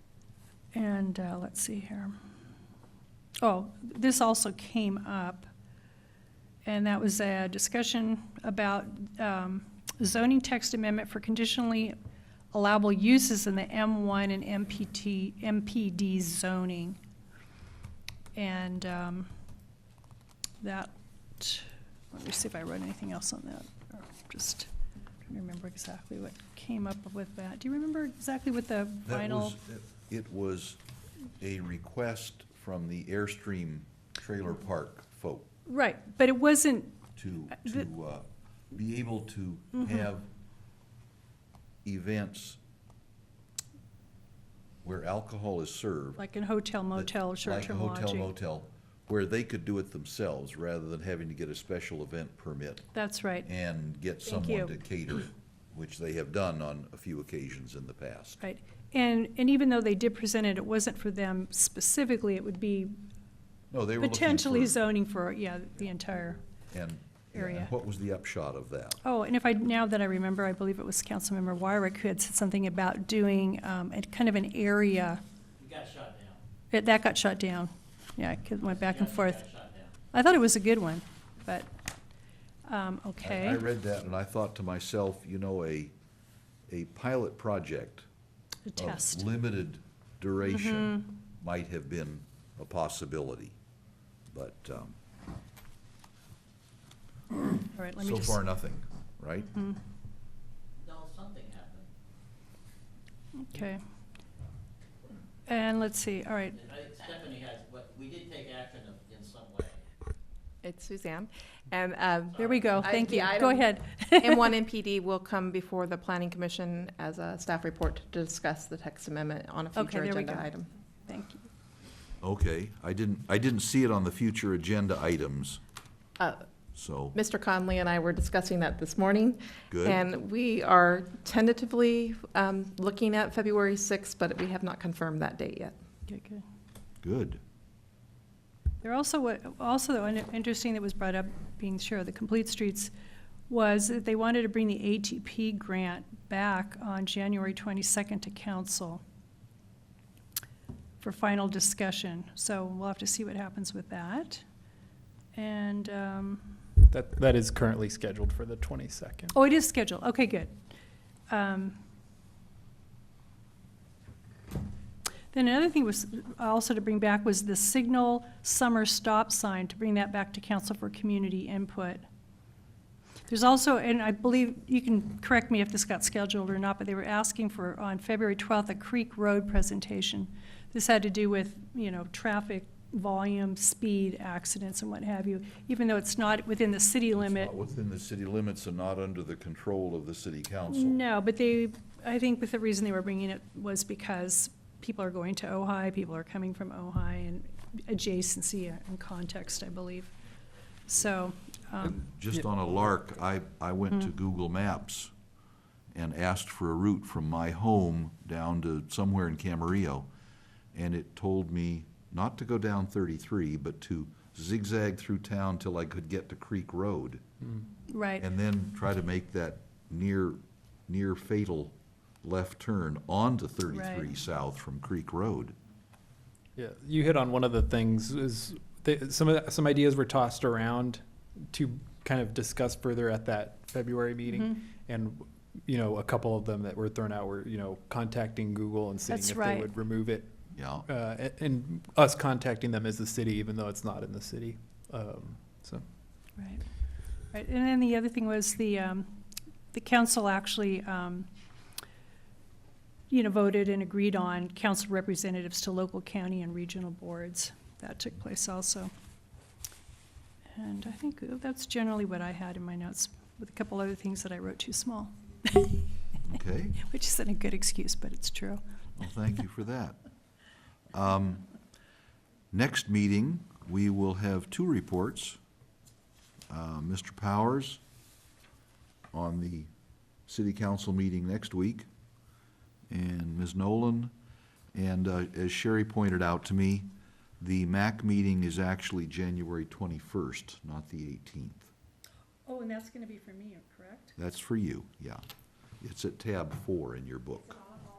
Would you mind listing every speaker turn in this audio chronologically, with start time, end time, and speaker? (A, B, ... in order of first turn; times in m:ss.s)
0:00.7-0:02.1 A
0:03.4-0:05.5 A
0:06.6-0:12.0 A
0:12.5-0:17.0 A
0:18.3-0:19.3 A
0:20.6-0:24.7 A
0:25.3-0:29.6 A
0:29.0-0:30.8 B
0:31.4-0:35.5 B
0:35.7-0:37.0 A
0:37.2-0:40.3 B
0:41.8-0:42.6 B
0:44.8-0:46.2 B
0:46.2-0:48.3 A
0:46.9-0:52.9 B
0:52.9-0:53.5 A
0:53.4-0:58.4 B
0:54.2-0:54.7 A
0:58.4-1:02.9 A
1:03.7-1:04.8 B
1:04.0-1:06.4 A
1:06.7-1:09.0 B
1:07.3-1:07.7 A
1:09.0-1:15.2 A
1:15.6-1:16.4 C
1:16.7-1:19.4 A
1:18.6-1:19.9 C
1:20.1-1:21.7 A
1:22.6-1:23.6 A
1:23.2-1:25.9 B
1:26.7-1:28.1 B
1:28.6-1:29.2 A
1:28.8-1:33.6 B
1:30.5-1:31.1 A
1:34.3-1:35.0 B
1:37.7-1:38.4 A
1:38.0-1:39.5 B
1:39.4-1:39.8 A
1:40.8-1:41.8 C
1:43.4-1:43.8 A
1:45.5-1:46.6 A
1:46.5-1:49.8 C
1:50.6-2:00.7 D
1:52.3-1:52.8 C
1:52.4-1:54.5 A
1:59.7-2:00.5 A
2:01.0-2:01.5 A
2:02.2-2:05.6 B
2:06.2-2:06.4 D
2:06.7-2:07.2 B
2:07.1-2:15.7 D
2:09.7-2:10.0 B
2:16.1-2:16.4 A
2:17.0-2:17.4 B
2:18.8-2:22.9 A
2:23.5-2:29.0 A
2:31.0-2:34.4 A
2:35.3-2:36.6 A
2:36.9-2:39.3 E
2:39.3-2:40.5 A
2:41.3-2:41.8 A
2:45.3-2:52.0 A
2:53.3-3:07.5 A
3:07.2-3:11.0 B
3:10.7-3:20.1 A
3:20.9-3:22.0 A
3:21.8-3:25.1 B
3:25.9-3:30.1 B
3:30.7-3:37.2 B
3:37.9-3:38.2 A
3:38.2-3:45.5 B
3:43.7-3:44.1 A
3:46.6-4:05.8 E
3:54.3-3:54.6 A
3:59.1-3:59.7 A
4:00.5-4:00.9 B
4:06.4-4:06.6 A
4:07.3-4:09.2 A
4:09.7-4:11.3 A
4:13.1-4:18.9 A
4:20.5-4:25.9 A
4:26.2-4:26.8 B
4:26.8-4:28.6 A
4:29.0-4:30.0 B
4:30.9-4:31.4 B
4:32.5-4:35.4 B
4:36.5-4:37.8 B
4:39.1-4:39.7 B
4:40.3-4:41.9 B
4:42.9-4:44.1 B
4:44.7-4:46.9 B
4:47.4-4:51.7 B
4:52.4-4:54.1 A
4:54.2-4:55.2 B
4:55.8-4:57.7 B